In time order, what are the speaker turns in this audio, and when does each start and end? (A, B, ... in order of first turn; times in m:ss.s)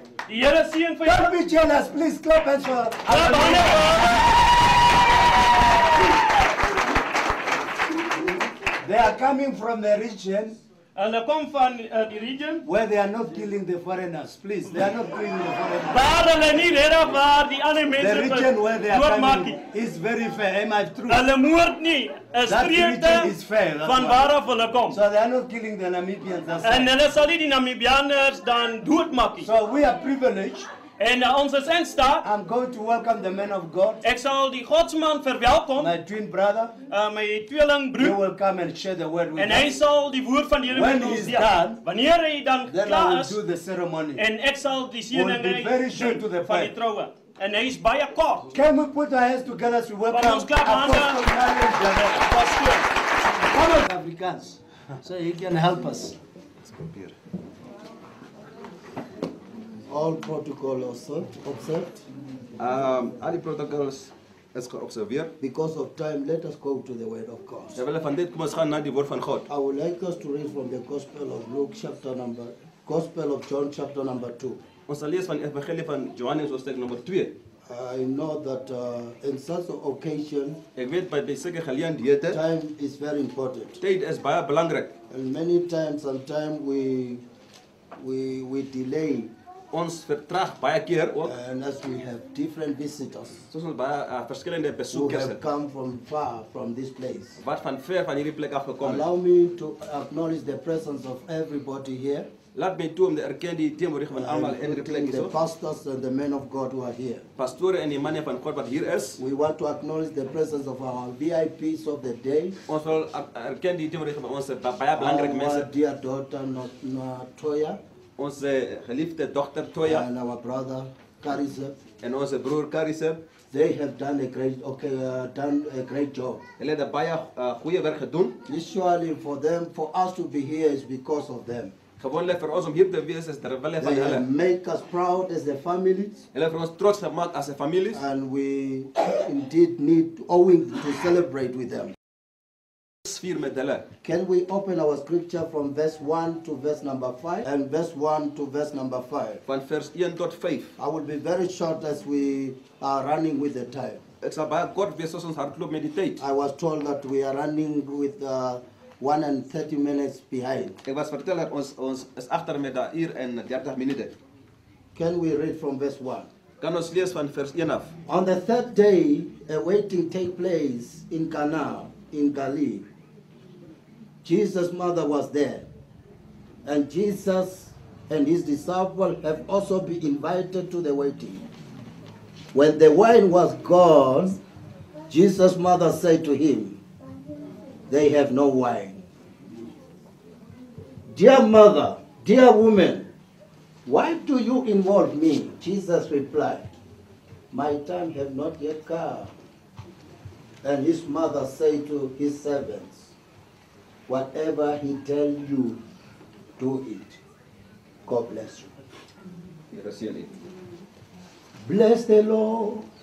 0:00.3-0:01.3 A
0:01.0-0:04.2 B
0:03.1-0:04.3 A
0:08.8-0:10.6 B
0:11.0-0:12.6 A
0:12.6-0:16.2 B
0:15.9-0:19.6 A
0:18.0-0:21.2 B
0:21.1-0:25.0 A
0:22.5-0:24.3 B
0:24.9-0:26.9 B
0:26.6-0:29.5 A
0:29.4-0:30.7 B
0:31.0-0:32.2 A
0:32.2-0:34.0 B
0:34.0-0:35.9 A
0:35.8-0:36.7 B
0:36.9-0:38.2 A
0:38.0-0:39.7 B
0:39.4-0:43.4 A
0:40.7-0:41.8 B
0:42.7-0:44.2 B
0:44.2-0:48.5 A
0:45.1-0:46.7 B
0:48.5-0:56.2 B
0:50.1-0:51.3 A
0:56.6-0:57.1 C
0:59.9-1:02.0 D
1:02.6-1:05.3 C
1:05.4-1:07.8 D
1:07.7-1:09.4 C
1:09.5-1:14.6 D
1:14.9-1:17.3 C
1:17.6-1:20.6 D
1:20.8-1:22.4 C
1:22.3-1:23.8 D
1:23.8-1:24.9 C
1:25.1-1:27.2 D
1:27.9-1:29.3 D
1:29.7-1:31.3 C
1:31.2-1:33.4 D
1:33.5-1:35.4 C
1:34.9-1:37.4 D
1:37.4-1:39.0 C
1:38.8-1:42.3 D
1:42.5-1:45.3 C
1:44.1-1:47.2 D
1:47.4-1:49.2 C
1:49.2-1:52.6 D
1:52.7-1:55.7 C
1:54.9-1:57.8 D
1:58.2-2:00.1 C
1:59.8-2:01.8 D
2:02.0-2:03.2 C
2:03.5-2:06.4 D
2:06.6-2:08.4 C
2:08.4-2:11.8 D
2:12.0-2:14.2 C
2:13.8-2:16.2 D
2:16.3-2:18.0 C
2:17.9-2:21.9 D
2:23.0-2:23.9 C
2:24.0-2:29.4 D
2:29.4-2:30.7 C
2:30.8-2:34.0 D
2:34.2-2:36.2 C
2:36.2-2:40.8 D
2:40.8-2:44.1 C
2:44.9-2:46.3 D
2:46.6-2:47.9 C
2:48.0-2:52.9 D
2:54.2-2:55.7 D
2:56.6-3:01.5 D
3:02.5-3:04.4 D
3:05.1-3:06.8 D
3:07.9-3:09.0 D
3:11.1-3:13.1 D
3:13.8-3:16.7 D
3:17.5-3:19.3 D
3:20.6-3:23.1 D
3:24.1-3:25.8 D
3:26.6-3:27.2 D
3:28.0-3:28.7 D
3:29.7-3:30.3 C
3:31.6-3:32.8 D